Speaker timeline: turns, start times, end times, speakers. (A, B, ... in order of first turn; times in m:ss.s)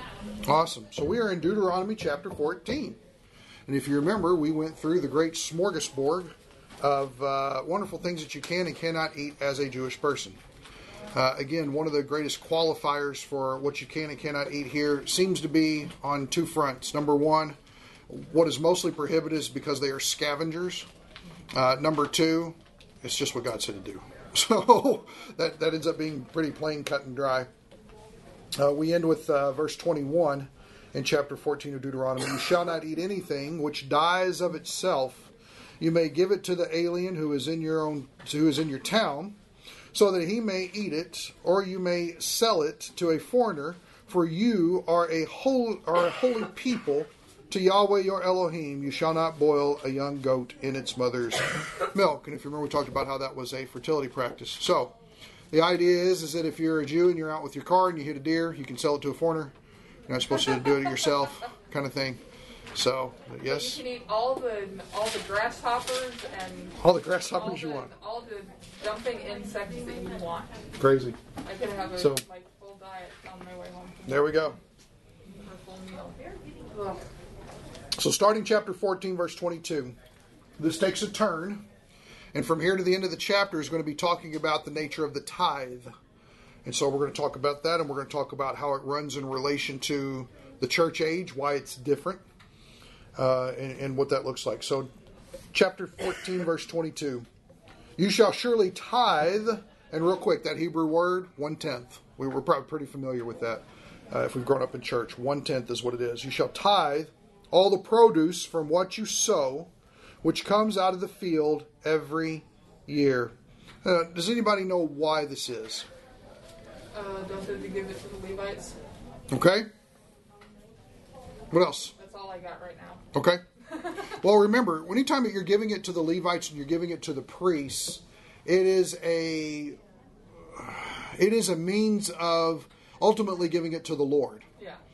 0:00.4-0:03.0 A
0:03.7-0:10.4 A
0:11.1-0:17.6 A
0:18.1-0:20.9 A
0:21.5-0:27.5 A
0:28.6-0:39.4 A
0:39.9-0:54.9 A
0:55.5-0:59.5 A
1:00.1-1:02.2 A
1:02.7-1:03.8 A
1:03.4-1:06.8 B
1:06.8-1:07.9 A
1:07.3-1:10.7 B
1:10.8-1:11.2 A
1:11.4-1:14.5 B
1:12.0-1:12.2 A
1:14.0-1:14.6 A
1:15.2-1:17.0 B
1:18.0-1:20.0 A
1:20.6-1:21.6 A
1:22.3-1:25.9 A
1:26.6-1:32.2 A
1:33.2-1:34.9 A
1:35.5-1:37.2 A
1:38.0-1:49.7 A
1:50.2-1:55.9 A
1:56.9-1:58.8 B
1:59.3-1:59.7 A
2:01.5-2:01.9 A
2:02.0-2:03.0 B
2:03.1-2:03.4 A
2:03.7-2:04.0 B
2:04.1-2:09.8 A
2:10.5-2:14.4 A